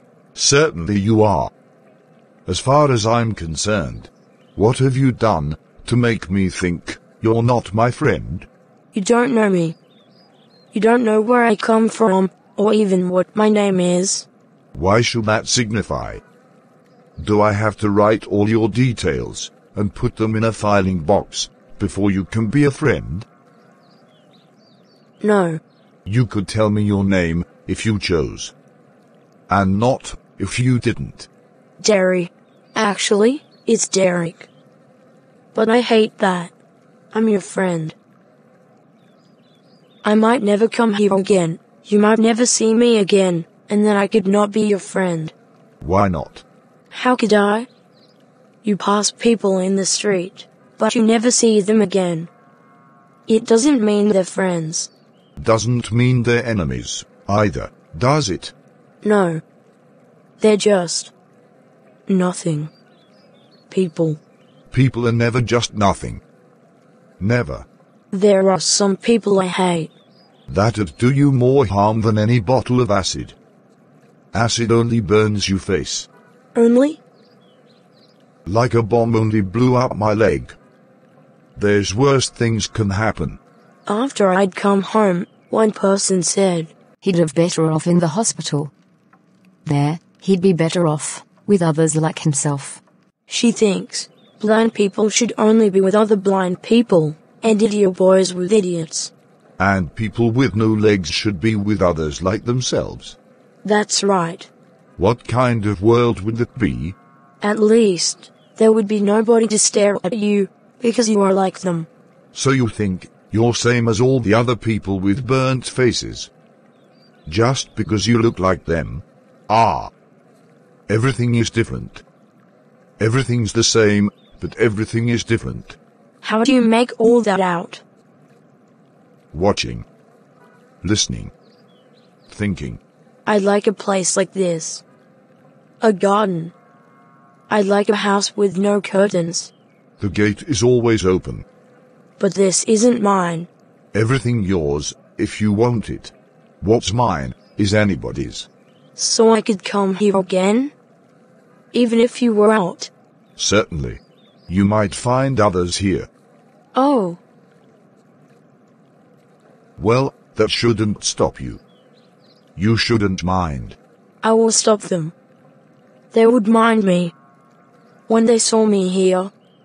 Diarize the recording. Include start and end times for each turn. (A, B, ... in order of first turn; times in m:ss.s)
0:00.3-0:01.5 A
0:02.4-0:08.5 A
0:08.9-0:09.8 B
0:10.7-0:14.3 B
0:14.7-0:16.2 A
0:17.2-0:23.3 A
0:25.2-0:25.6 B
0:26.0-0:28.5 A
0:29.5-0:31.3 A
0:31.8-0:34.5 B
0:35.5-0:36.5 B
0:37.1-0:38.0 B
0:40.0-0:45.3 B
0:45.8-0:46.4 A
0:46.9-0:47.7 B
0:48.6-0:52.3 B
0:53.3-0:54.9 B
0:55.4-0:58.5 A
0:59.0-0:59.4 B
1:00.4-1:01.1 B
1:02.1-1:02.7 B
1:03.7-1:04.2 B
1:04.7-1:06.2 A
1:07.2-1:07.6 A
1:08.1-1:09.9 B
1:10.5-1:13.4 A
1:14.3-1:16.1 A
1:16.5-1:17.0 B
1:18.4-1:20.6 A
1:21.6-1:23.4 A
1:23.9-1:26.7 B
1:27.0-1:28.7 C
1:29.6-1:32.8 C
1:33.3-1:39.1 B
1:39.6-1:43.2 A
1:43.6-1:44.5 B
1:45.0-1:47.0 A
1:47.4-1:51.9 B
1:52.3-1:56.3 A
1:57.2-1:59.9 A
2:00.9-2:02.0 A
2:03.0-2:05.8 A
2:06.2-2:07.8 B
2:09.3-2:09.9 A
2:10.8-2:11.3 A
2:12.3-2:12.8 A
2:13.2-2:14.8 B
2:15.8-2:16.5 B
2:17.5-2:19.5 B
2:20.0-2:21.4 A
2:22.2-2:23.5 B
2:23.9-2:28.5 A
2:29.0-2:30.7 B
2:31.7-2:32.9 B
2:33.4-2:36.1 A
2:36.7-2:37.2 B
2:39.8-2:41.6 A
2:42.6-2:43.8 A
2:44.2-2:45.1 B
2:46.1-2:47.1 B
2:48.1-2:49.3 B